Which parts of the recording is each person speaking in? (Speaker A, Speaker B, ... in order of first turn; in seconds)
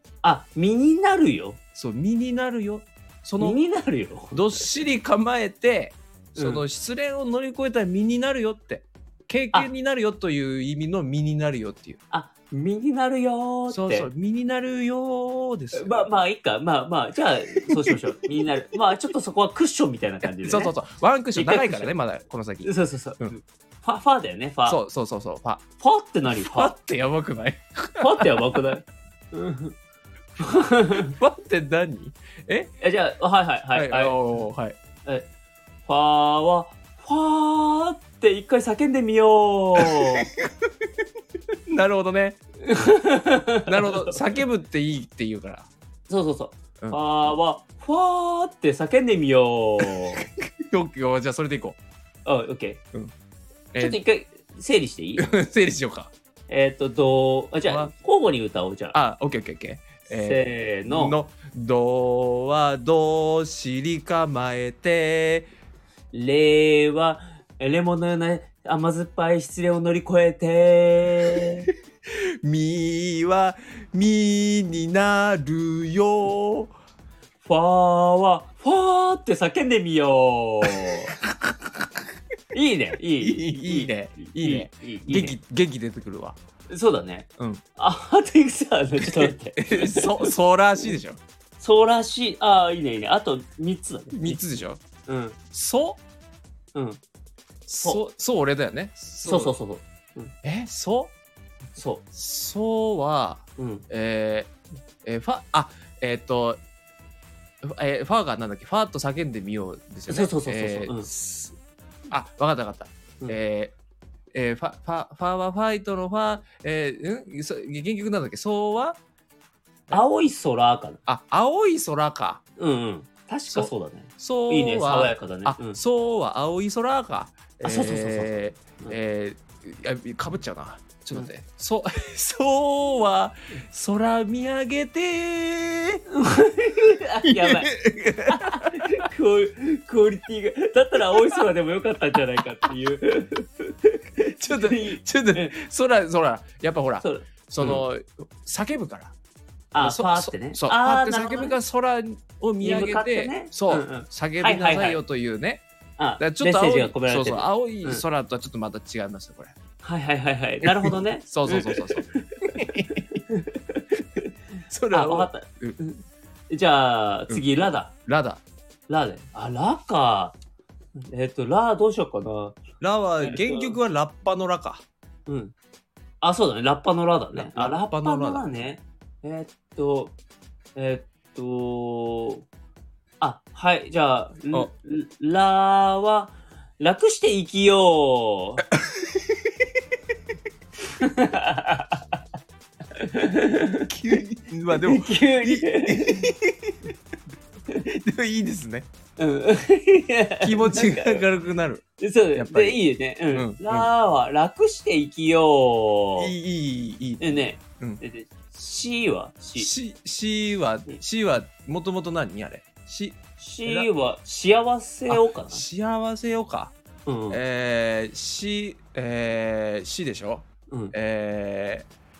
Speaker A: 0.2-1.6, 3.4-4.7, 6.4-6.6, 12.1-14.1, 15.7-20.8, 21.3-21.9, 22.6-24.8, 25.8-26.8, 28.0-29.8, 30.4-31.1, 32.8-34.2, 35.9-40.3, 42.6-44.4, 46.1-50.2, 52.2-52.8, 53.8-55.3, 56.5-59.0, 60.1-61.2, 66.1-71.7, 77.4-81.1, 82.5-85.4, 86.7-90.3, 91.6-94.5, 95.1-95.4, 96.8-97.0, 99.2-100.3, 101.8-102.0, 103.6-103.9, 110.1-111.1, 119.9-121.0, 122.6-125.8, 127.6-129.0, 136.1-137.7, 138.3-145.5, 147.0-147.8, 149.7-151.6, 152.6-155.0, 156.0-158.0, 159.8-164.3, 164.9-167.9, 168.9-170.3, 171.0-172.6, 173.2-173.8, 175.3-175.5, 176.2-180.2, 180.8-182.4, 183.2-188.6, 190.9-192.2, 193.0-193.9, 194.8-196.3, 199.2-201.2, 202.0-206.3, 207.2-209.7, 213.4-215.6, 217.1-217.4, 220.7-220.9
Speaker B: 1.8-3.6, 4.3-12.0, 13.7-16.0, 17.7-18.0, 20.2-23.3, 24.7-25.6, 26.4-28.6, 31.0-32.7, 33.8-34.8, 39.8-40.7, 41.7-42.4, 43.7-45.7, 49.8-51.8, 53.7-54.0, 55.2-56.1, 57.7-57.9, 58.9-65.5, 72.1-76.7, 81.1-81.7, 83.2-86.4, 89.0-91.2, 94.1-94.8, 95.5-96.0, 97.7-99.5, 100.4-101.1, 102.1-104.5, 105.0-106.6, 107.6-111.6, 112.1-113.7, 114.3-119.0, 121.1-122.4, 123.5-136.0, 137.2-139.1, 144.4-149.1, 149.8-155.6, 156.2-159.6, 160.7-163.1, 164.7-165.8, 168.1-168.4, 172.8-174.8, 177.3-178.5, 193.9-196.9, 197.8-198.9, 200.4-203.9, 206.2-208.0, 209.6-213.9, 215.1-216.8, 217.3-221.9